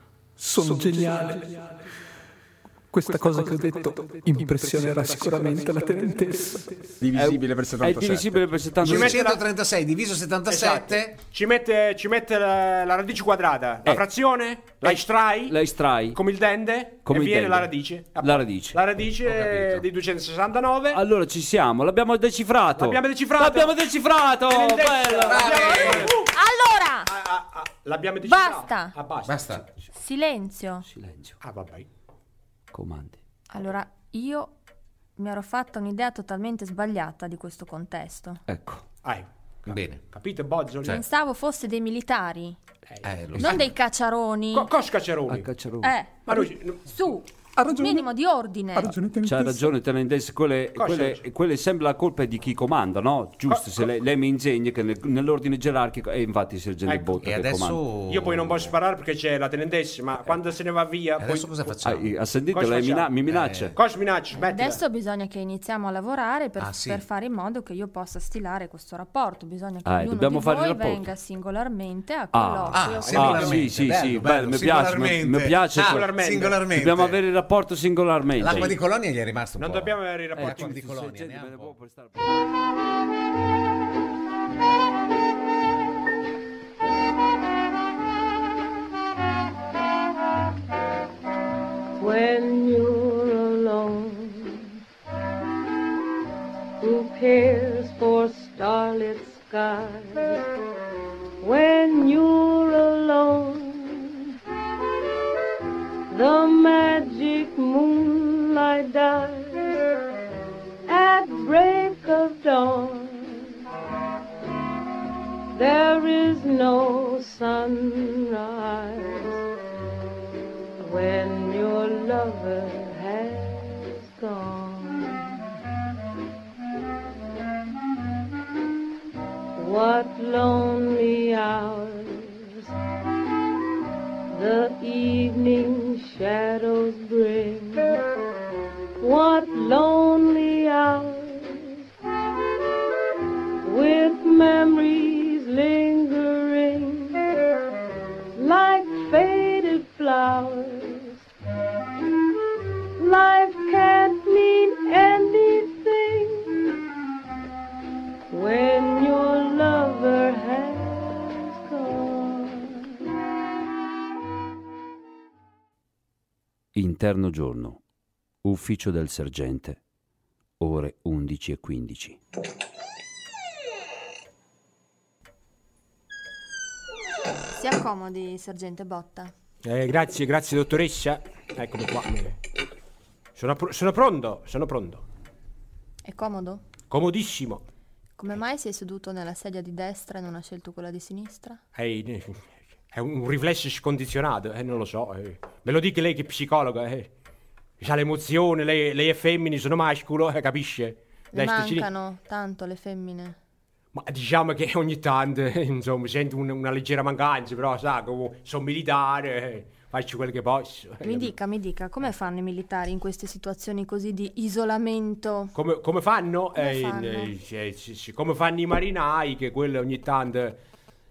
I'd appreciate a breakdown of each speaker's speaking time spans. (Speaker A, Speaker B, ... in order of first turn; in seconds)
Speaker A: 0.4-1.7, 2.9-8.7, 47.6-48.1, 48.8-49.7
Speaker B: 7.1-9.2, 14.8-16.2, 17.1-18.8, 20.9-26.0, 30.9-31.4, 32.7-33.2, 38.5-38.8, 45.3-45.9, 49.2-57.8, 61.8-63.7, 69.9-71.1, 72.3-76.1, 76.7-78.8, 80.4-82.3, 166.8-167.8, 168.4-169.8, 170.6-172.2
Speaker C: 8.8-9.4, 10.5-15.6, 16.1-21.0, 22.8-23.8, 24.5-26.3, 27.1-29.6, 31.4-31.9, 39.0-41.0, 42.9-43.1, 44.5-45.5, 46.3-46.8, 50.8-51.2, 53.5-53.9, 56.9-57.3, 58.1-61.7, 62.5-63.1, 63.7-64.8, 75.8-76.6, 79.6-80.8, 179.6-182.4, 183.4-185.0, 186.9-187.6, 191.8-197.1, 197.8-201.9, 203.9-211.3, 215.6-220.6
Speaker D: 8.8-11.2, 19.2-19.9, 25.2-26.2, 29.2-29.7, 39.7-40.0, 43.0-43.7, 57.2-58.7, 61.2-62.1, 63.3-63.8, 66.6-67.0, 72.7-77.2, 78.4-81.7
Speaker E: 26.1-27.1, 28.2-28.9, 29.9-30.9, 33.5-34.5, 35.2-38.4, 40.9-42.6, 43.4-44.7, 45.8-49.0, 64.4-73.6, 177.5-179.3, 186.0-186.6, 188.2-191.6, 201.3-203.4, 211.0-215.6, 216.6-217.3
Speaker F: 92.0-94.7, 96.8-100.4, 101.4-104.3, 106.1-109.8, 110.9-113.5, 115.5-119.4, 120.8-125.4, 129.6-132.7, 134.3-138.0, 139.0-141.8, 143.6-147.2, 148.3-151.2, 153.0-156.6, 158.3-162.8